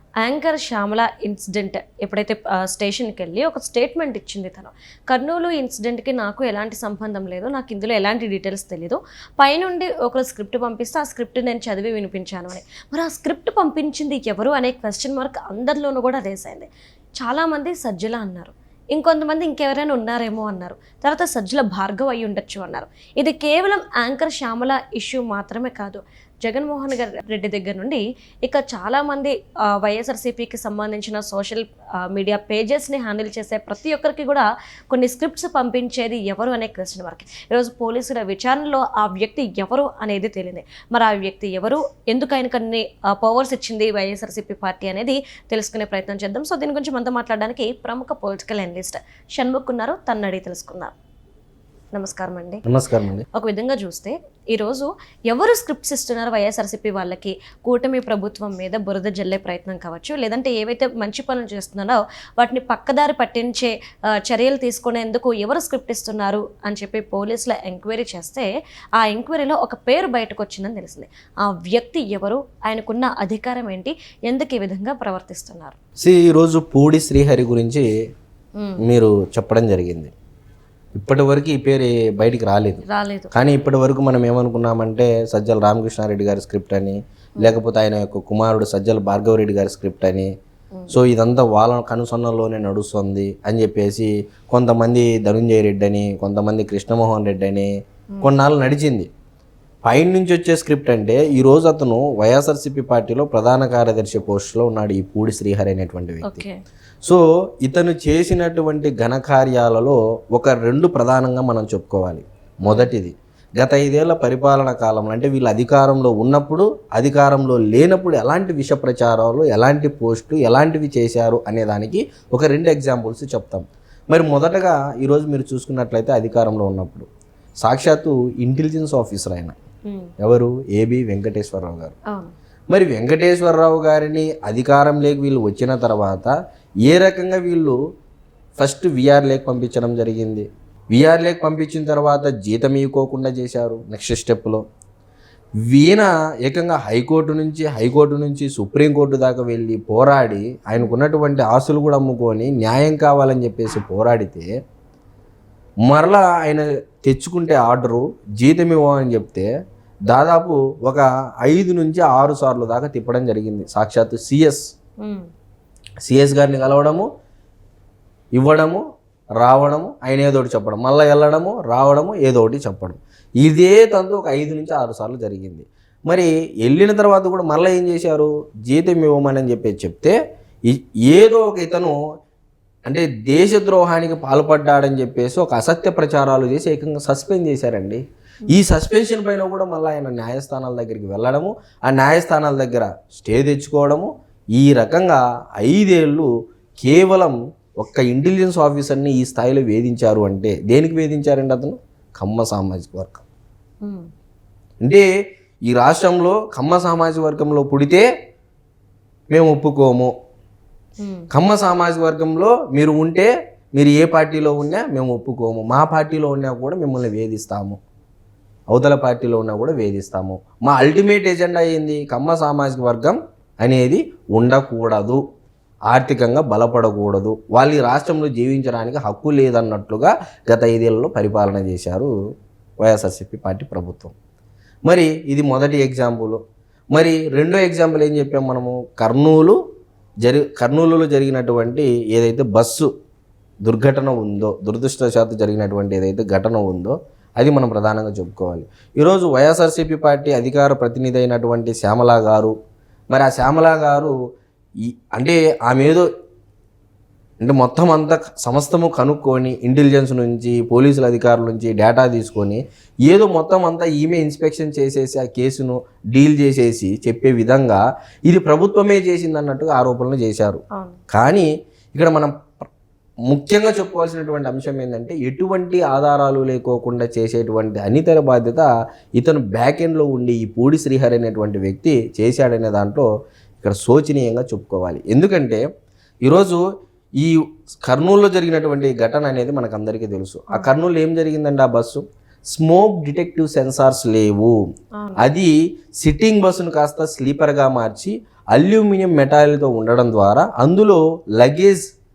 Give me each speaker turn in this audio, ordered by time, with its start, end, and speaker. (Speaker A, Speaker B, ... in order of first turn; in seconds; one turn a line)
Speaker A: 0.2-16.7
Speaker A: 17.2-50.9
Speaker A: 51.9-52.6
Speaker B: 52.6-53.2
Speaker A: 53.3-63.7
Speaker A: 64.2-75.8
Speaker B: 76.0-77.9
Speaker A: 78.6-78.8
Speaker B: 78.8-80.1
Speaker B: 81.0-90.3
Speaker A: 82.9-83.3
Speaker B: 90.9-97.7
Speaker B: 98.2-99.1
Speaker B: 99.8-106.4
Speaker A: 106.2-106.6
Speaker B: 107.0-127.1
Speaker A: 112.6-112.9
Speaker B: 127.6-129.5
Speaker B: 130.2-131.9
Speaker B: 132.7-136.3
Speaker B: 136.8-137.8
Speaker B: 138.6-144.6
Speaker B: 145.7-154.5
Speaker B: 155.9-159.5
Speaker B: 160.1-164.6
Speaker A: 165.0-165.3
Speaker B: 166.0-167.1
Speaker B: 168.3-168.8
Speaker B: 169.4-180.2
Speaker B: 180.7-182.0
Speaker B: 182.9-196.3
Speaker B: 196.8-203.2
Speaker A: 203.8-204.1
Speaker B: 204.8-205.1
Speaker B: 205.7-208.1
Speaker B: 209.3-210.1
Speaker A: 211.0-211.3
Speaker B: 211.3-217.8
Speaker B: 218.7-225.2
Speaker B: 225.9-232.1
Speaker B: 232.8-234.1
Speaker B: 234.9-236.4
Speaker B: 236.9-239.6
Speaker B: 240.2-242.9
Speaker B: 243.6-252.5
Speaker B: 253.1-254.1
Speaker B: 254.8-256.1
Speaker B: 257.4-272.3
Speaker A: 270.7-271.0
Speaker B: 273.3-283.1
Speaker B: 283.6-285.6
Speaker B: 286.2-286.6
Speaker B: 287.2-294.5
Speaker A: 295.0-295.2
Speaker B: 295.2-301.8